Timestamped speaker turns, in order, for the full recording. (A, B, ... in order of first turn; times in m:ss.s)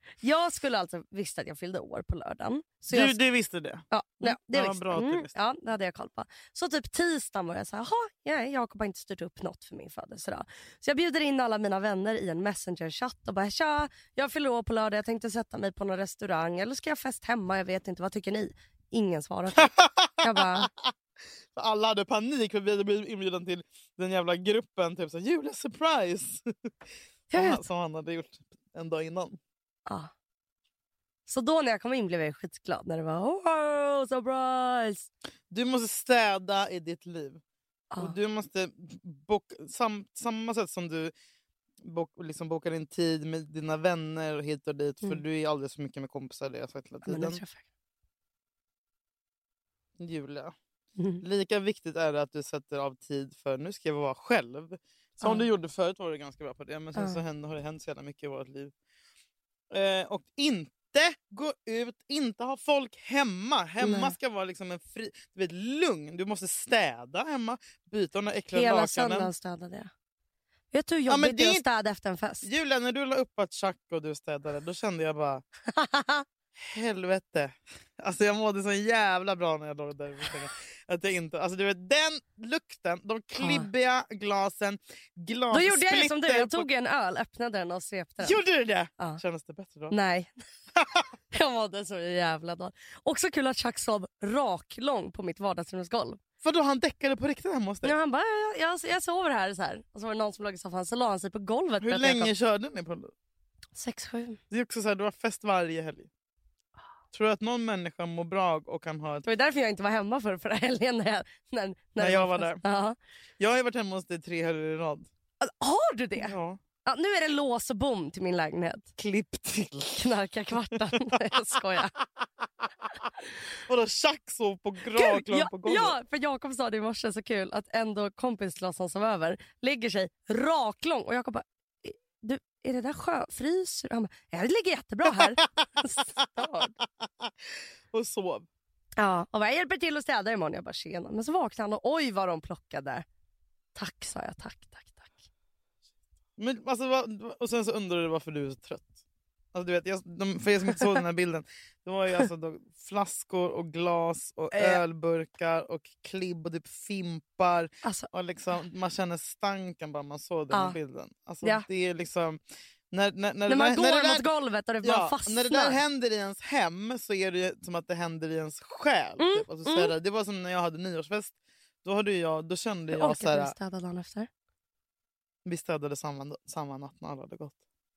0:00.2-0:03.2 A
0:02.9-0:05.3 B
0:03.9-0:20.7 A
0:19.6-0:20.9 B
0:21.6-0:26.5 B
0:27.3-0:27.6 A
0:27.3-0:29.4 B
0:29.9-0:30.1 A
0:31.3-0:35.1 A
0:35.5-0:37.4 B
0:37.9-0:38.2 A
0:38.0-0:41.1 B
0:41.8-0:47.4 B
0:47.0-0:47.6 A
0:50.0-0:50.5 B
0:51.0-0:51.2 A
0:51.2-0:58.7 B
0:55.2-0:55.5 A
0:57.0-0:57.2 A
0:59.7-1:09.3 B
1:03.8-1:04.2 A
1:08.5-1:09.9 A
1:10.7-1:12.5 A
1:11.1-1:11.6 B
1:12.4-1:15.4 B
1:15.7-1:16.2 A
1:16.6-1:26.7 B
1:23.4-1:23.7 A
1:25.5-1:28.4 A
1:28.2-1:30.0 B
1:29.9-1:30.3 A
1:30.8-1:31.0 B
1:31.3-1:36.2 A
1:36.4-1:37.9 B
1:37.8-1:42.3 A
1:41.8-1:43.1 B
1:43.8-1:44.4 A
1:44.5-1:46.1 B
1:47.1-1:49.2 B
1:49.2-1:53.0 A
1:52.0-1:52.6 B
1:53.4-1:55.1 B
1:55.4-1:58.9 A
1:56.2-1:56.6 B
1:59.0-2:00.1 B
2:00.0-2:01.9 A
2:00.9-2:01.2 B
2:03.7-2:06.0 B
2:04.9-2:16.7 A
2:15.2-2:15.7 B
2:16.2-2:17.3 B
2:17.9-2:18.5 B
2:19.0-2:23.0 A
2:23.8-2:25.1 A
2:26.4-2:28.9 B
2:29.5-2:42.4 B
2:34.5-2:34.8 A
2:37.8-2:38.1 A
2:40.5-2:40.8 A
2:42.9-2:44.3 B
2:43.5-2:45.8 A
2:44.8-2:53.5 B
2:49.2-2:49.9 A
2:52.9-2:54.3 A
2:55.4-2:57.6 B